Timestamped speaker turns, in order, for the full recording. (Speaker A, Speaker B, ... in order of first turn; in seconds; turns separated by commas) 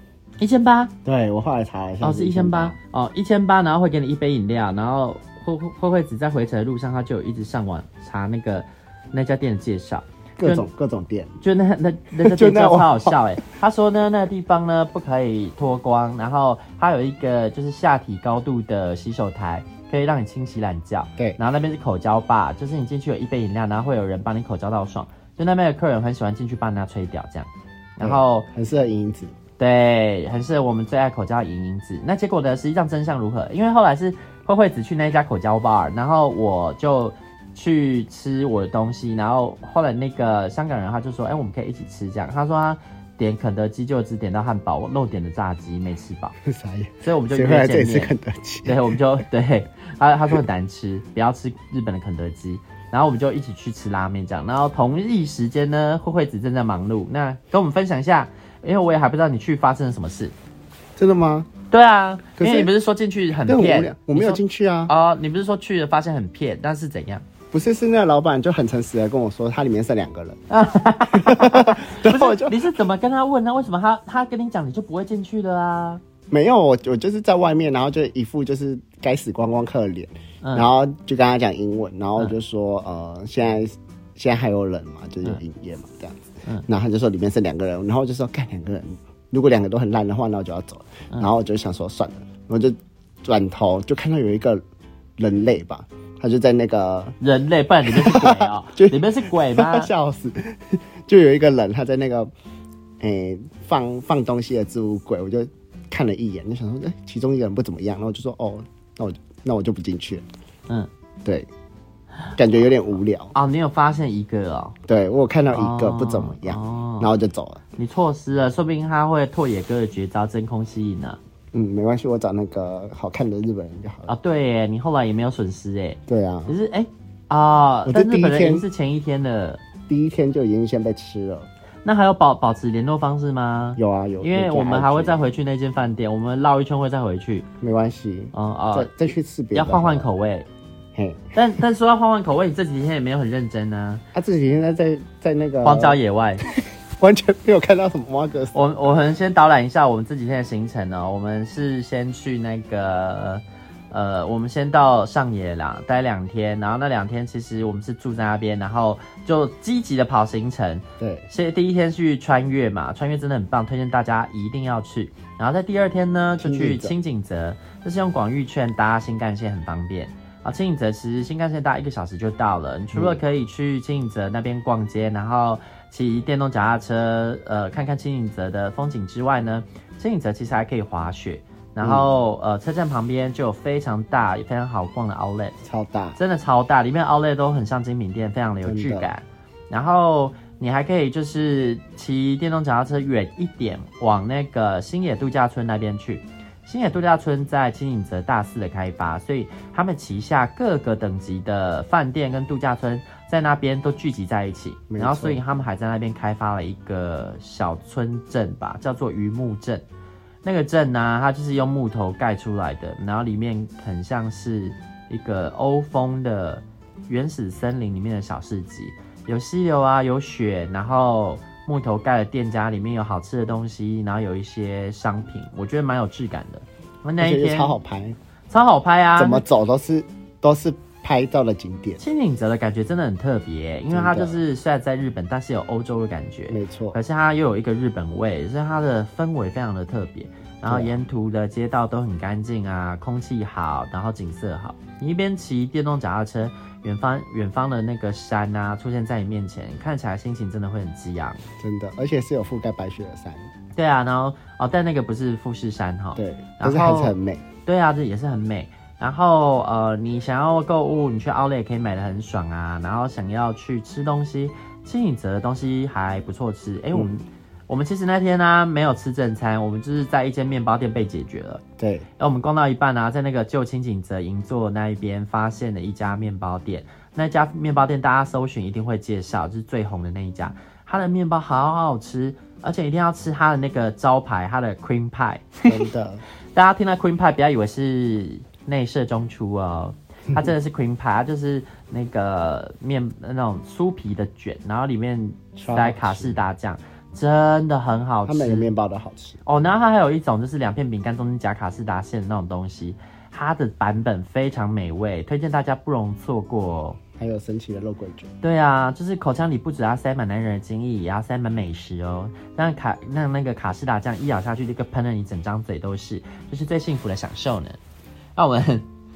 Speaker A: 0.4-0.9, Speaker B: 1.0-2.8, Speaker A: 2.0-10.7, Speaker B: 10.4-11.3, Speaker A: 11.4-28.5, Speaker B: 12.2-13.2, Speaker B: 28.0-29.3, Speaker A: 29.6-46.3, Speaker B: 46.4-48.8, Speaker A: 47.0-48.1, Speaker A: 48.6-60.3, Speaker B: 61.0-61.5, Speaker A: 61.7-67.2, Speaker B: 62.4-62.7, Speaker B: 63.5-64.9, Speaker B: 67.5-70.4, Speaker A: 70.5-76.0, Speaker B: 71.1-72.6, Speaker B: 76.3-94.6, Speaker A: 80.4-80.7, Speaker B: 95.2-97.2, Speaker A: 97.2-99.9, Speaker B: 97.8-102.3, Speaker B: 103.0-110.2, Speaker B: 112.3-113.3, Speaker A: 113.3-114.8, Speaker B: 114.9-117.6, Speaker A: 115.5-117.1, Speaker A: 117.8-121.2, Speaker B: 121.5-124.1, Speaker A: 124.1-129.6, Speaker B: 126.1-126.5, Speaker B: 127.8-128.7, Speaker B: 129.9-131.5, Speaker A: 131.8-137.5, Speaker B: 133.8-135.2, Speaker B: 137.6-140.1, Speaker A: 138.3-138.9, Speaker A: 139.5-140.5, Speaker B: 140.9-141.3, Speaker A: 141.3-144.0, Speaker B: 144.1-148.6, Speaker A: 145.6-146.4, Speaker A: 148.5-185.6, Speaker B: 161.0-161.3, Speaker B: 166.4-166.9, Speaker B: 172.9-173.2, Speaker B: 181.8-182.1, Speaker B: 185.6-186.2, Speaker A: 186.2-209.8, Speaker B: 188.7-189.1, Speaker B: 204.9-205.4, Speaker A: 210.4-227.7, Speaker B: 227.2-228.2, Speaker A: 228.5-229.4, Speaker B: 229.2-232.0, Speaker A: 232.0-251.4, Speaker B: 233.9-234.4, Speaker B: 236.5-237.0, Speaker B: 240.7-241.0, Speaker B: 251.6-253.4, Speaker A: 253.8-257.1, Speaker B: 256.1-257.4, Speaker A: 257.6-271.6, Speaker B: 271.8-272.1, Speaker A: 272.2-285.8, Speaker B: 285.7-286.2, Speaker A: 286.5-298.7, Speaker B: 295.6-296.4, Speaker B: 298.2-299.4, Speaker A: 299.4-307.0, Speaker B: 307.2-308.3, Speaker A: 308.4-317.8, Speaker A: 318.4-318.9